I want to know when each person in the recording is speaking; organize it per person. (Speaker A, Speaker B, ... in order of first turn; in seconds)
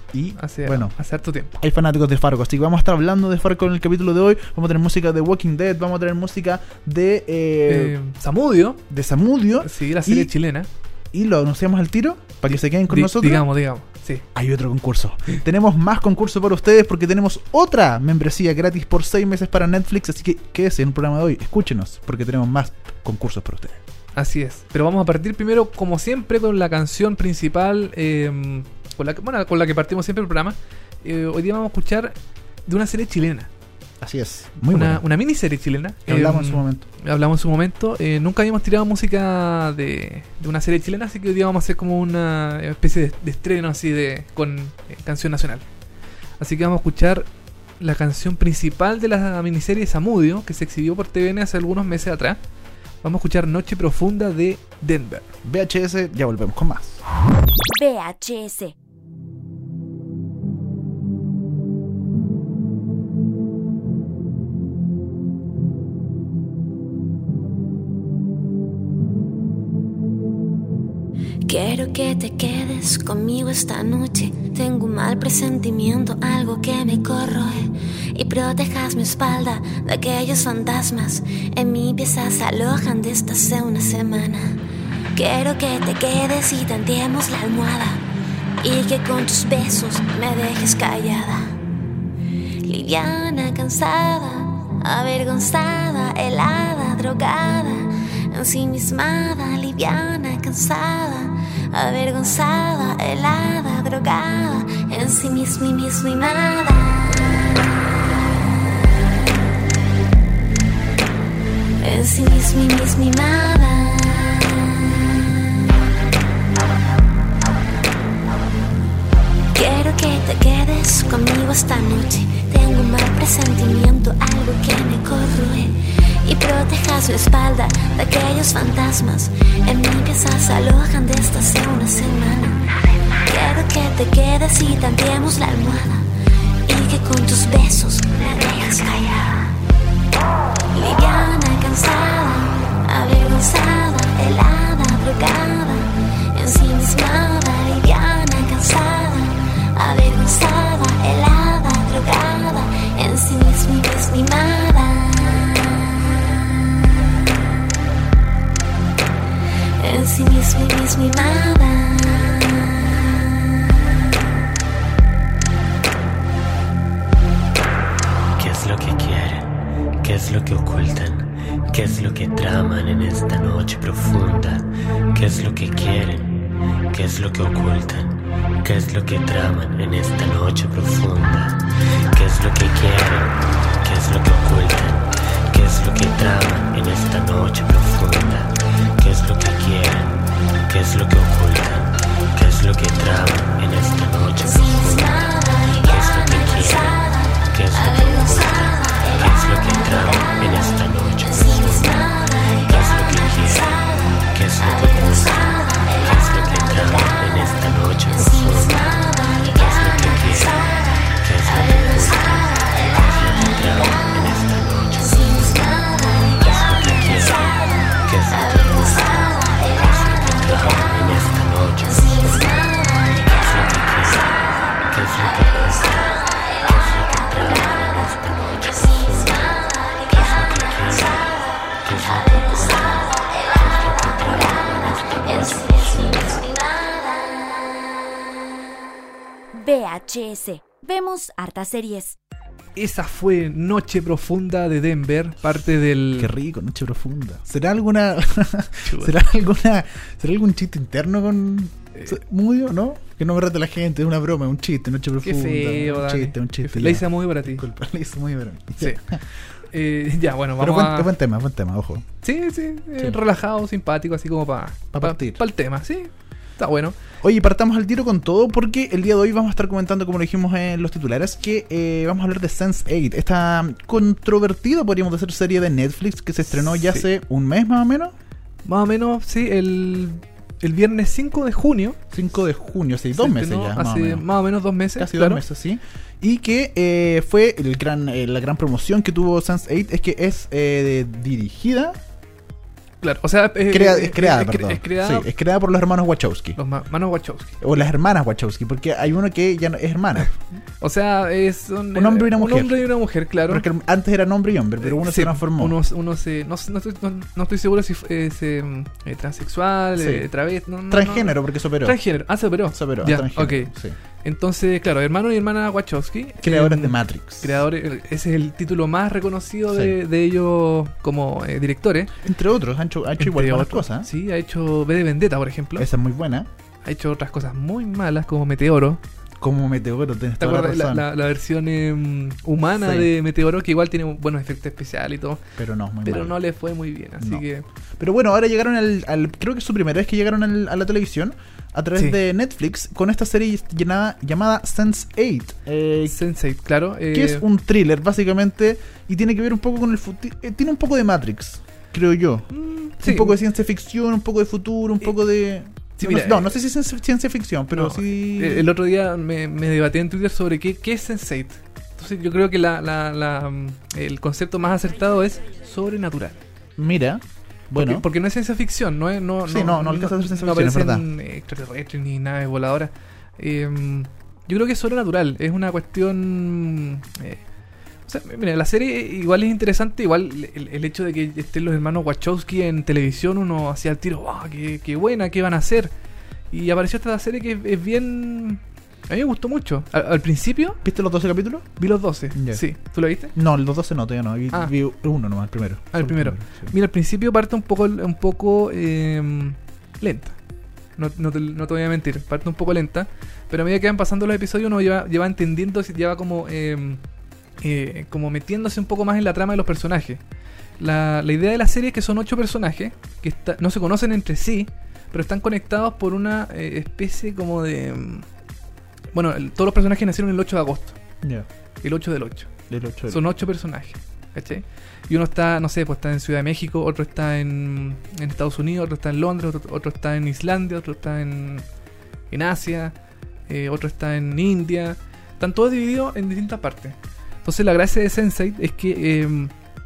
Speaker A: 0.1-0.9, 1.6-8.0, 8.9-10.3, 11.1-13.4, 14.3-23.8, 34.0-35.0, 36.1-36.9, 55.4-57.0, 246.2-259.2, 260.6-262.1, 264.9-265.4, 267.2-278.1, 282.1-284.3, 284.9-292.0, 293.7-296.6, 297.6-300.4, 301.9-302.8, 303.5-305.8, 310.0-310.3, 310.9-312.0, 312.7-314.0, 316.4-317.6, 319.7-320.0, 322.2-324.1, 325.8-326.5, 329.4-331.1, 332.8-333.1, 335.6-336.4, 337.2-337.4, 338.0-346.2, 347.1-352.5, 353.0-358.7, 366.8-368.1, 369.5-371.1, 390.8-391.8, 392.3-392.6, 393.3-396.7, 422.7-423.2
Speaker B: 0.3-1.5, 7.7-8.8, 9.6-10.7, 12.9-14.2, 24.2-32.1, 32.7-33.5, 34.7-45.6, 46.4-47.3, 47.8-52.4, 53.0-55.3, 242.8-246.3, 248.8-249.1, 255.2-257.6, 259.7-261.1, 262.2-267.0, 276.6-277.1, 278.6-282.0, 283.1-285.4, 293.0-295.3, 296.6-297.6, 300.8-303.7, 304.8-322.1, 323.2-325.9, 326.9-329.0, 330.4-335.4, 336.1-337.7, 346.1-347.4, 352.5-353.4, 356.0-356.6, 357.7-366.4, 367.8-377.4, 378.1-385.9, 386.5-390.8, 391.8-393.3, 395.9-400.4, 401.0-407.0, 407.6-410.2, 410.8-418.3, 419.1-421.0, 421.8-422.5, 423.1-431.7, 432.3-432.9, 433.5-439.5
Speaker C: 57.7-58.8, 239.5-242.2
Speaker D: 71.5-84.6, 85.2-88.0, 88.6-91.5, 92.6-107.3, 111.8-115.2, 119.5-132.6, 133.3-136.1, 136.7-139.5, 140.7-155.8, 159.8-163.1, 194.4-199.3, 201.3-206.9, 208.1-214.1, 215.0-217.6, 218.4-220.2, 221.8-223.3, 229.8-230.1, 232.4-233.4, 235.2-237.3
Speaker E: 168.4-176.4, 176.9-181.6, 182.1-215.8, 216.4-224.3, 224.9-236.5